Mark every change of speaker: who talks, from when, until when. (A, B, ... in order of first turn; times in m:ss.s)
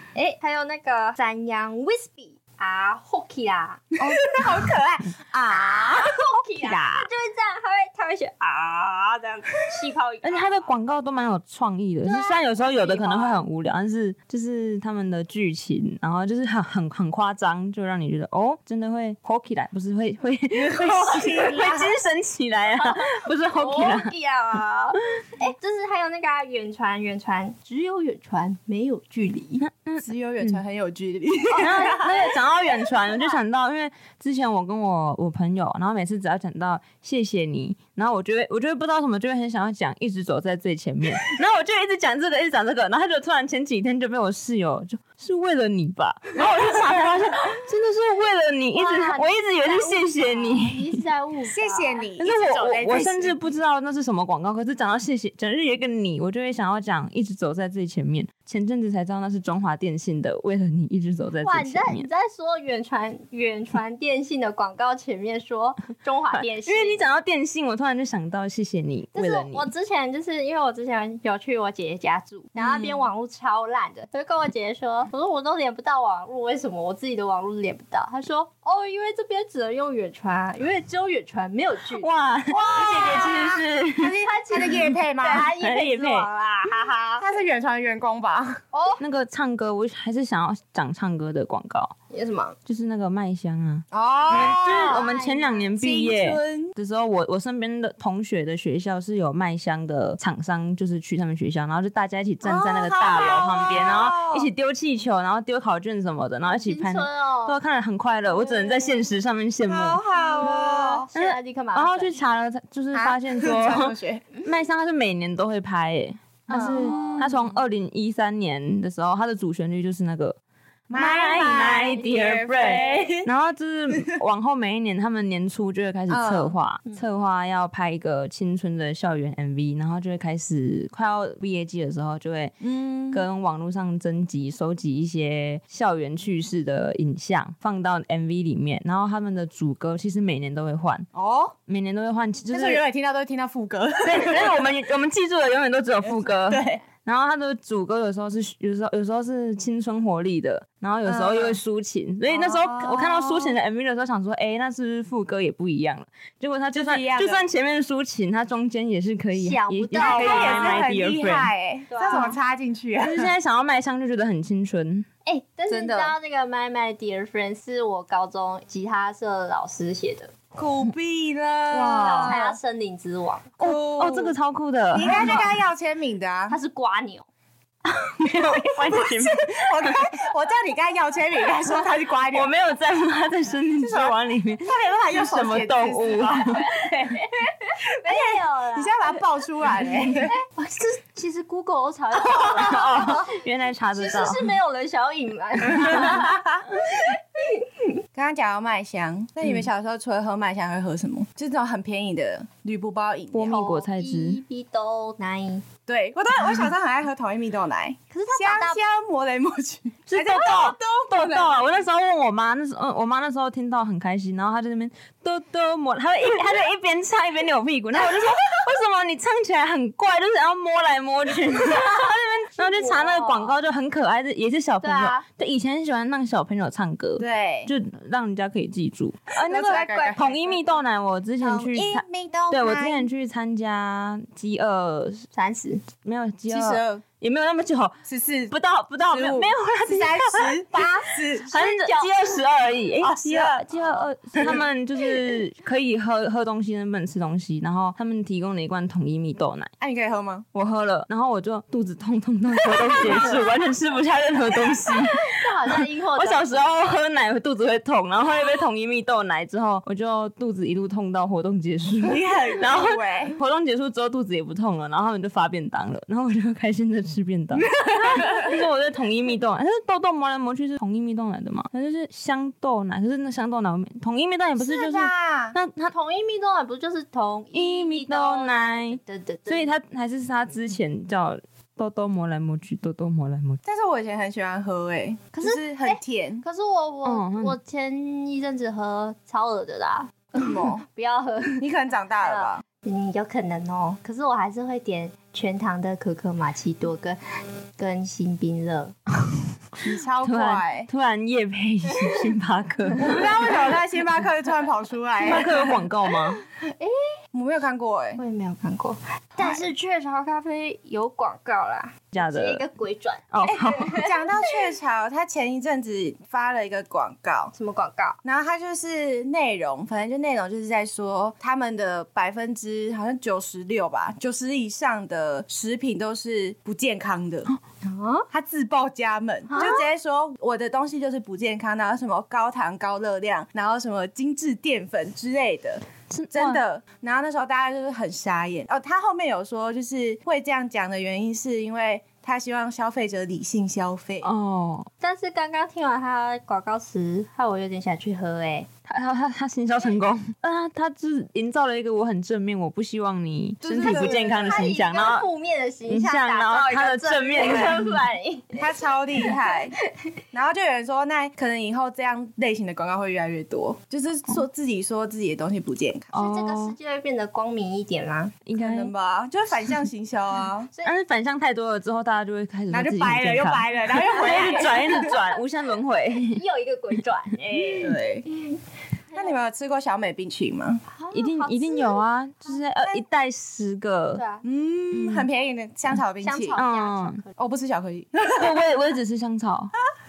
0:00.1-0:04.4 A
0:04.0-0:07.0 B
0:05.5-0:10.7 A
0:10.2-0:24.1 C
0:12.0-0:13.4 A
0:20.5-0:22.0 B
0:22.8-0:29.6 A
0:29.6-0:30.6 C
0:30.0-0:32.3 B
0:31.5-0:32.3 A
0:31.5-0:51.0 C
0:32.9-0:33.4 A
0:48.7-0:53.1 A
0:51.5-0:53.3 B
0:52.2-1:02.1 C
1:01.4-1:07.0 A
1:06.3-1:09.7 C
1:09.1-1:22.1 A
1:21.9-1:24.2 C
1:22.5-1:25.5 B
1:22.9-1:23.3 A
1:24.2-1:27.3 A
1:25.4-1:26.3 C
1:27.2-1:28.6 B
1:28.7-1:29.0 A
1:29.0-1:31.9 C
1:32.1-1:32.6 A
1:32.6-1:50.5 C
1:33.9-1:35.1 B
1:34.4-1:35.8 A
1:35.8-1:36.7 B
1:42.4-1:44.5 B
1:46.5-1:47.6 A
1:48.5-1:48.8 A
1:49.6-1:51.1 B
1:50.1-1:52.2 A
1:51.1-2:00.4 C
1:52.9-1:54.3 B
1:56.5-1:57.4 A
1:56.5-1:57.4 B
2:00.9-2:03.3 B
2:00.9-2:12.5 C
2:03.9-2:04.2 B
2:06.1-2:06.5 B
2:12.6-2:13.2 B
2:13.1-2:21.1 C
2:21.1-2:21.6 B
2:21.7-2:22.8 C
2:22.5-2:24.8 B
2:24.0-2:41.5 C
2:26.0-2:26.8 B
2:31.0-2:31.6 B
2:32.3-2:33.5 B
2:36.7-2:37.4 B
2:39.3-2:40.8 A
2:39.9-2:43.3 B
2:41.9-2:42.4 A
2:43.0-2:45.1 C
2:45.2-2:50.3 A
2:45.7-2:46.1 B
2:50.5-2:52.6 B
2:51.7-2:52.4 C
2:52.0-2:53.5 A
2:53.6-2:54.4 B
2:53.6-2:55.4 C
2:54.9-2:56.6 B
2:55.1-2:55.6 A
2:56.5-2:57.3 A
2:57.8-3:00.1 C
2:58.3-3:02.5 B
3:02.3-3:06.8 C
3:03.8-3:06.6 B
3:06.3-3:09.2 A
3:08.0-3:10.4 B
3:10.3-3:13.4 A
3:12.2-3:14.5 C
3:13.9-3:17.8 A
3:15.8-3:16.6 B
3:15.8-3:16.2 C
3:18.1-3:23.5 B
3:19.4-3:19.7 C
3:23.3-3:24.4 C
3:23.4-3:25.6 A
3:25.9-3:31.6 B
3:28.1-3:28.8 A
3:30.1-3:55.3 C
3:42.6-3:43.6 A
3:44.8-3:45.2 A
3:47.2-3:47.7 B
3:49.4-3:50.5 B
3:49.4-3:50.3 A
3:51.4-3:53.1 B
3:55.3-3:55.8 A
3:56.0-3:58.0 C
3:56.5-3:57.0 B
3:58.0-3:58.5 B
3:58.5-4:00.6 C
3:59.1-4:01.6 B
4:01.5-4:09.7 C
4:01.5-4:02.4 A
4:03.0-4:04.6 B
4:09.8-4:10.4 B
4:10.5-4:35.9 C
4:12.7-4:13.4 B
4:13.0-4:13.4 A
4:14.8-4:16.7 A
4:22.0-4:23.4 B
4:27.5-4:28.5 B
4:34.6-4:35.6 B
4:35.9-4:39.7 A
4:37.5-4:43.6 C
4:43.6-4:46.4 B
4:45.3-4:51.6 A
4:47.0-4:47.6 C
4:50.3-4:50.8 B
4:51.6-4:52.6 B
4:52.2-4:57.2 A
4:57.8-4:58.9 A
4:59.8-5:00.9 B
5:00.2-5:03.8 C
5:03.0-5:05.8 B
5:05.2-5:06.4 C
5:05.3-5:05.7 A
5:06.2-5:07.0 A
5:07.3-5:08.2 B
5:08.2-5:14.6 A
5:09.4-5:09.7 B
5:12.1-5:12.6 C
5:13.3-5:14.0 C
5:13.5-5:17.5 B
5:17.5-5:18.2 A
5:18.2-5:27.5 B
5:27.8-5:28.3 A
5:28.3-5:44.3 B
5:29.5-5:29.9 A
5:36.1-5:36.6 C
5:44.2-5:44.9 C
5:45.0-5:48.7 A
5:48.9-5:55.3 C
5:53.6-5:54.7 B
5:53.7-5:59.5 A
5:55.9-5:57.9 C
5:57.4-5:57.8 B
5:58.6-5:59.8 B
6:00.3-6:06.1 B
6:06.1-6:06.8 C
6:06.1-6:08.4 A
6:08.4-6:08.9 C
6:08.6-6:10.7 B
6:10.8-6:16.4 C
6:12.7-6:15.1 B
6:14.2-6:15.4 A
6:16.2-6:18.6 A
6:17.5-6:17.9 C
6:17.8-6:18.3 B
6:19.1-6:19.4 A
6:19.1-6:20.8 B
6:20.9-6:22.0 A
6:21.1-6:24.2 C
6:24.1-6:24.4 A
6:24.4-6:26.6 B
6:24.9-6:25.3 C
6:26.2-6:27.3 A
6:26.6-6:27.2 C
6:27.4-6:28.6 B
6:28.2-6:29.7 C